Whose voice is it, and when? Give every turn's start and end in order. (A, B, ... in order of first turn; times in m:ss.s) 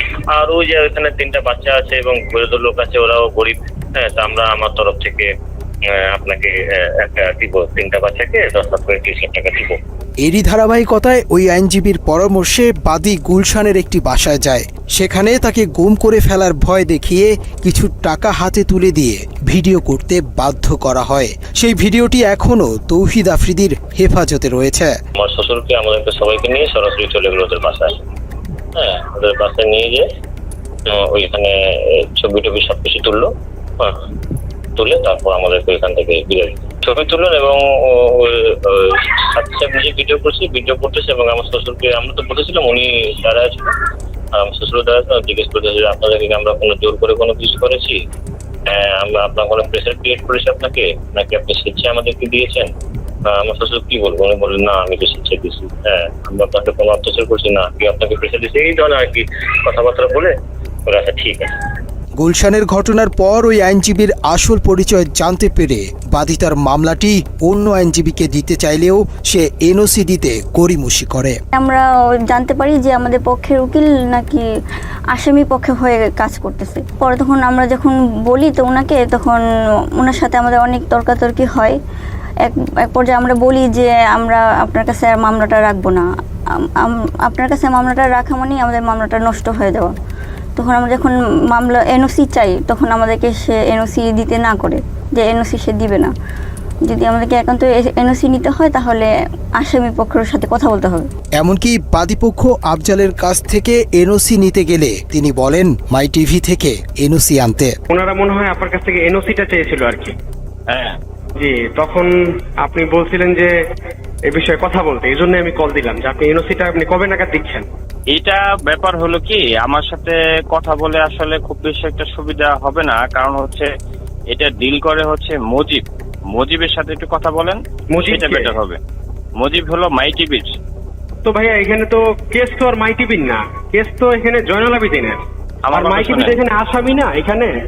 0:00.3-0:05.3 A
0:05.9-0:09.8 A
0:10.2-0:24.9 B
0:25.2-0:28.0 A
0:28.8-0:30.0 A
0:30.9-0:31.5 A
0:32.2-0:33.3 A
0:34.8-0:43.7 A
0:44.4-0:48.0 A
0:48.7-0:52.7 A
0:53.3-1:00.3 A
1:00.9-1:01.5 A
1:02.2-1:11.4 B
1:11.5-1:14.5 C
1:15.1-1:19.4 C
1:20.0-1:21.8 C
1:22.4-1:26.1 C
1:26.6-1:29.9 C
1:30.6-1:36.1 C
1:36.8-1:41.1 C
1:41.4-1:47.7 B
1:47.9-1:50.1 D
1:50.7-1:51.0 E
1:51.4-1:52.1 D
1:52.6-1:53.5 D
1:54.3-1:57.6 D
1:58.1-2:03.7 E
2:04.3-2:08.8 E
2:07.9-2:08.5 D
2:09.4-2:10.5 E
2:11.2-2:15.2 D
2:15.6-2:16.4 E
2:15.7-2:17.5 D